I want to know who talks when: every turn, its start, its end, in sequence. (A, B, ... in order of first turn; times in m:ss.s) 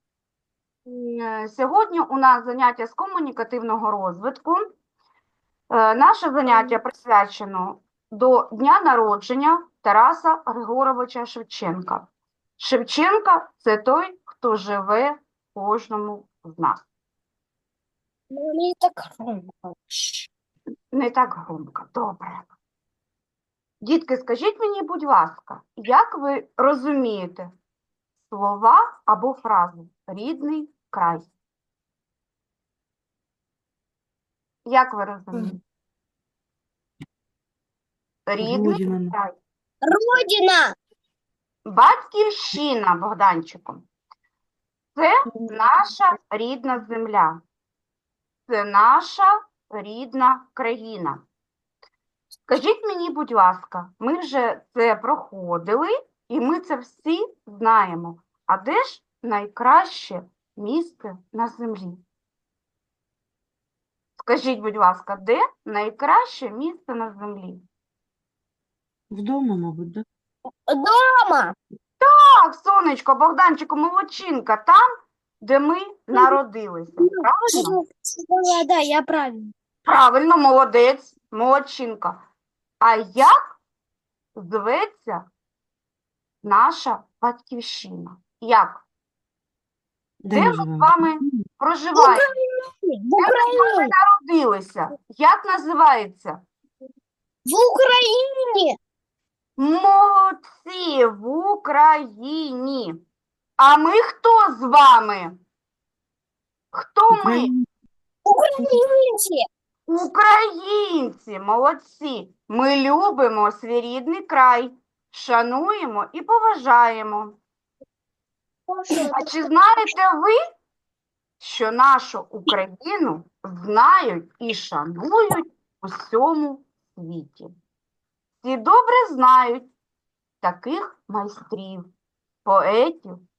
0:00.8-0:04.6 A
0:05.7-0:16.8 A
0:18.3-0:20.3 B
0:20.9-0:22.5 A
0:23.8-0:27.5 A
0:28.2-0:31.3 A
0:34.6-0:35.6 A
0:38.3-0:39.3 A
0:38.4-0:39.1 C
0:39.8-0:40.8 B
0:41.7-0:43.8 A
0:44.9-0:47.4 A
0:48.5-0:51.2 A
0:52.5-1:02.0 A
1:04.2-1:07.6 A
1:09.1-1:10.0 C
1:10.7-1:11.5 B
1:12.0-1:14.8 A
1:15.4-1:17.8 A
1:17.0-1:19.5 B
1:19.8-1:22.2 A
1:22.8-1:23.6 A
1:24.4-1:25.2 A
1:26.4-1:28.8 A
1:30.2-1:31.4 C
1:30.3-1:32.3 A
1:32.0-1:33.9 B
1:33.2-1:36.4 A
1:37.4-1:38.8 B
1:39.6-1:43.0 A
1:43.6-1:45.3 A
1:46.7-1:47.5 A
1:47.1-1:47.6 C
1:48.2-1:49.4 B
1:49.9-1:57.4 A
1:58.7-1:59.4 B
1:59.1-2:00.4 A
2:01.4-2:07.5 A
2:08.4-2:09.7 A
2:10.4-2:11.9 A
2:12.4-2:13.2 A